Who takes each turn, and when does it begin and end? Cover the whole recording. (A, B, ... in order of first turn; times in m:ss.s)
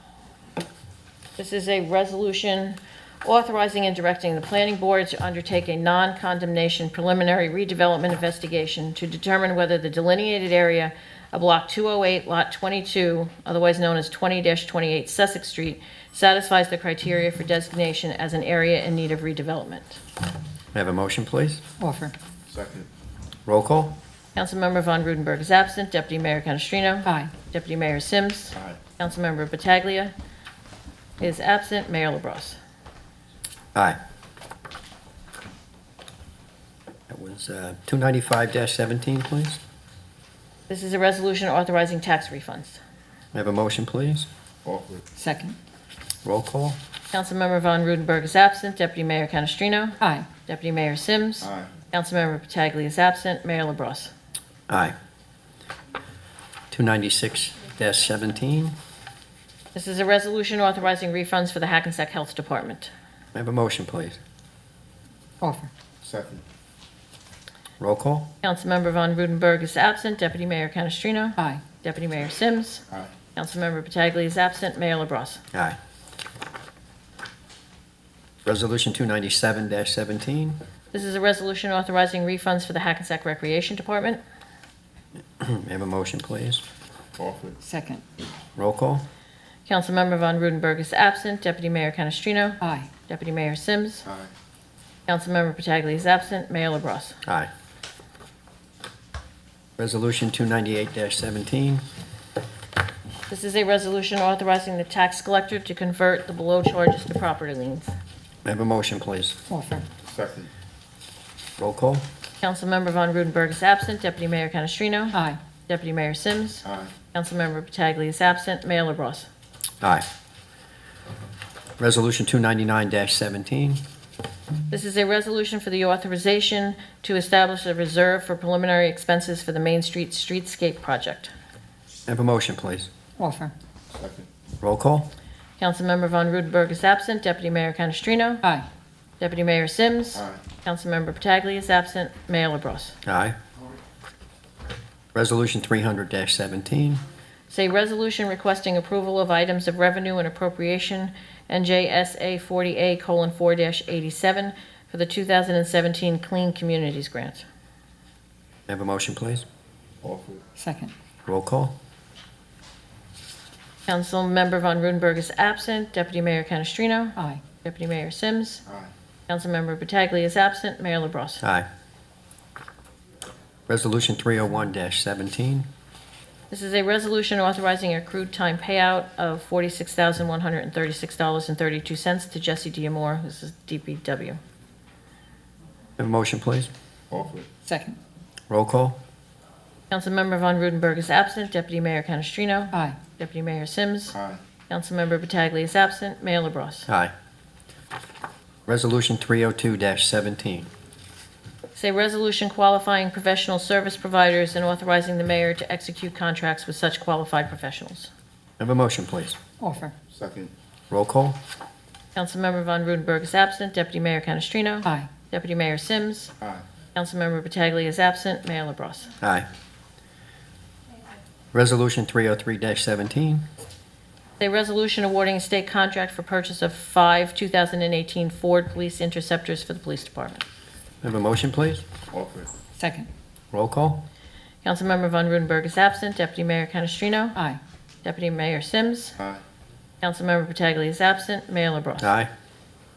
0:01.4-0:20.0 A
0:20.7-0:21.6 B
0:21.8-0:22.1 C
0:22.5-0:22.9 D
0:23.4-0:23.9 B
0:24.4-0:30.1 A
0:27.0-0:27.3 C
0:31.2-0:32.6 A
0:37.1-0:39.6 B
0:40.7-0:42.8 A
0:43.3-0:44.3 B
0:44.6-0:45.0 D
0:45.2-0:45.6 C
0:46.2-0:46.8 B
0:47.1-0:54.1 A
0:50.0-0:50.3 C
0:51.4-0:51.7 D
0:54.7-0:54.9 B
0:56.7-0:58.7 B
0:59.7-1:02.9 A
1:03.3-1:04.2 B
1:05.4-1:05.7 C
1:06.0-1:06.4 D
1:07.8-1:08.3 B
1:08.4-1:12.8 A
1:13.3-1:15.4 A
1:18.4-1:20.6 B
1:20.9-1:24.2 A
1:25.4-1:26.6 B
1:27.2-1:27.6 D
1:27.6-1:28.0 C
1:28.6-1:29.0 B
1:29.6-1:34.0 A
1:32.6-1:32.9 C
1:34.0-1:34.3 D
1:35.1-1:37.2 A
1:39.8-1:41.8 B
1:43.3-1:47.9 A
1:48.4-1:49.4 B
1:49.5-1:49.8 C
1:50.0-1:50.5 D
1:51.6-1:52.0 B
1:52.4-1:59.3 A
1:55.1-1:55.4 C
1:56.6-1:56.9 D
1:59.8-2:00.0 B
2:01.8-2:03.8 B
2:04.7-2:11.3 A
2:12.1-2:12.9 B
2:13.2-2:13.5 C
2:13.9-2:14.3 D
2:14.6-2:15.1 B
2:15.6-2:18.5 A
2:19.2-2:23.0 A
2:20.2-2:20.4 D
2:23.0-2:23.4 B
2:25.1-2:27.0 B
2:27.5-2:37.4 A
2:38.7-2:39.4 B
2:40.0-2:40.4 D
2:40.6-2:40.9 C
2:41.2-2:41.7 B
2:43.9-2:48.6 A
2:47.2-2:47.4 C
2:49.3-2:51.4 A
2:51.4-2:51.7 B
2:53.7-2:55.7 B
2:56.5-3:04.4 A
3:06.0-3:06.7 B
3:07.1-3:07.5 D
3:07.6-3:08.0 C
3:08.5-3:09.0 B
3:09.9-3:14.2 A
3:12.7-3:13.0 C
3:14.1-3:14.4 D
3:14.7-3:16.9 A
3:18.7-3:20.7 B
3:21.7-3:28.1 A
3:28.6-3:29.4 B
3:29.6-3:29.9 C
3:30.1-3:30.5 D
3:30.9-3:31.4 B
3:32.1-3:36.3 A
3:34.8-3:35.1 C
3:36.9-3:39.1 A
3:39.2-3:39.5 B
3:41.5-3:43.4 B
3:44.4-3:50.4 A
3:51.0-3:51.8 B
3:52.1-3:52.5 D
3:52.8-3:53.1 C
3:53.5-3:54.0 B
3:54.6-3:57.4 A
3:58.0-3:59.2 A
4:00.0-4:02.1 A
4:02.0-4:02.3 B